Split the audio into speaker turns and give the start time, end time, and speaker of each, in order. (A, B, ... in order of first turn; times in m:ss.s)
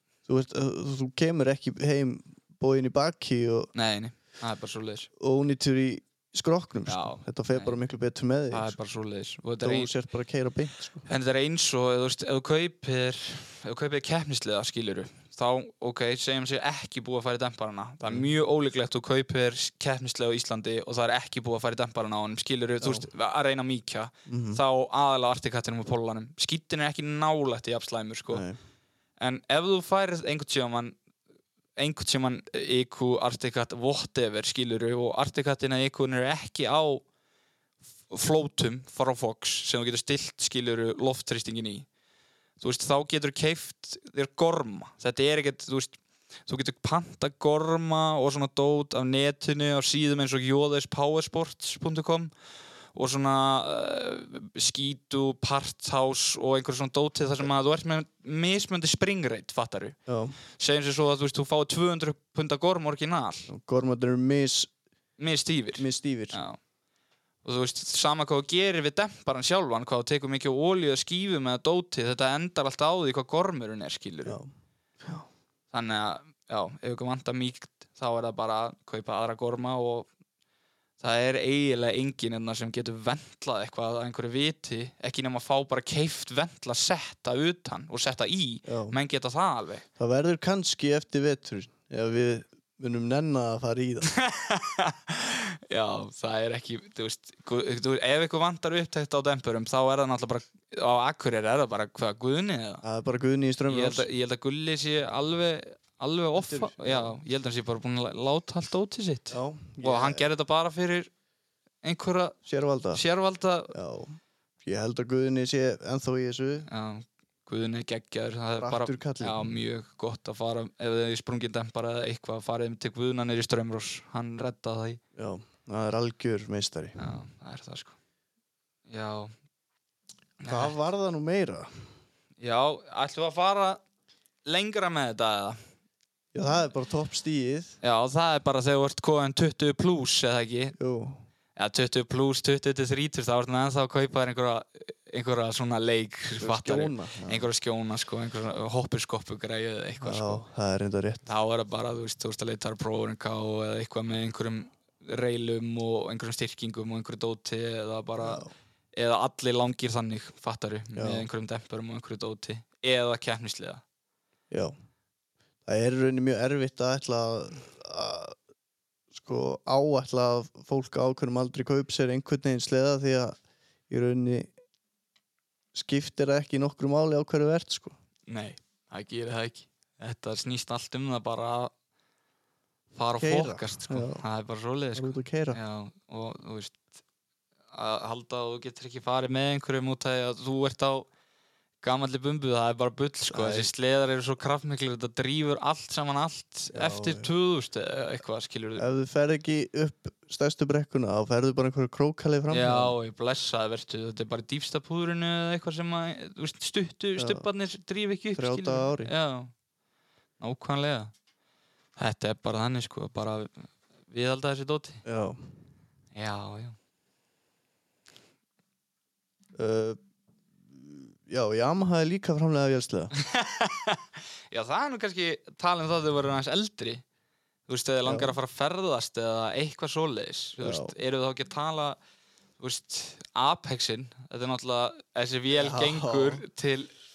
0:00.3-0:03.7 A
0:03.7-0:05.1 B
0:05.2-0:08.8 A
0:06.9-0:07.8 B
0:08.5-0:09.9 B
0:09.6-0:11.0 A
0:11.0-0:28.4 B
0:24.3-0:24.6 A
0:28.3-0:28.6 A
0:29.2-0:31.0 B
0:31.8-0:37.0 B
0:38.1-0:41.9 B
0:42.6-0:52.3 B
0:52.9-1:00.0 B
1:00.1-1:00.4 A
1:00.5-1:03.5 B
1:03.5-1:04.7 A
1:05.2-1:06.6 B
1:05.8-1:06.4 A
1:07.4-1:14.4 B
1:15.7-1:20.1 B
1:21.0-1:29.8 B
1:28.6-1:29.0 A
1:30.0-1:34.1 A
1:34.1-1:42.8 B
1:42.8-1:44.1 A
1:43.7-1:51.1 B
1:46.4-1:47.1 A
1:49.3-1:50.2 A
1:51.8-1:52.4 B
1:52.4-1:53.0 A
1:52.9-1:53.8 B
1:53.7-1:56.7 A
1:56.7-2:05.0 B
1:58.6-1:59.4 A
2:05.2-2:07.0 A
2:07.0-2:08.0 B
2:08.9-2:09.3 B
2:10.4-2:10.7 B
2:10.4-2:11.9 A
2:12.4-2:13.8 B
2:14.4-2:15.6 B
2:16.3-2:17.8 A
2:17.8-2:20.7 B
2:20.8-2:21.2 A
2:21.6-2:30.4 B
2:26.4-2:27.5 A
2:30.0-2:31.3 A
2:31.2-2:43.8 B
2:38.2-2:38.5 A
2:41.0-2:41.2 A
2:45.6-2:48.4 A
2:49.1-2:53.4 A
2:53.9-2:54.5 A
2:55.7-2:57.9 A
2:58.3-3:01.7 B
3:02.9-3:06.8 B
3:03.2-3:04.2 A
3:04.9-3:05.6 A
3:07.7-3:11.1 B
3:11.8-3:18.8 B
3:13.3-3:13.7 A
3:16.7-3:17.3 A
3:18.8-3:22.9 A
3:22.5-3:29.5 B
3:27.2-3:27.4 A
3:28.3-3:29.1 A
3:30.4-3:31.1 B
3:32.0-3:35.0 B
3:35.0-3:35.4 A
3:36.1-3:36.8 B
3:39.5-3:40.0 A
3:40.7-3:43.1 A
3:43.1-3:47.0 B
3:47.7-3:52.0 B
3:48.0-3:48.4 A
3:50.6-3:50.9 A
3:52.6-3:56.9 B
3:55.5-3:56.4 A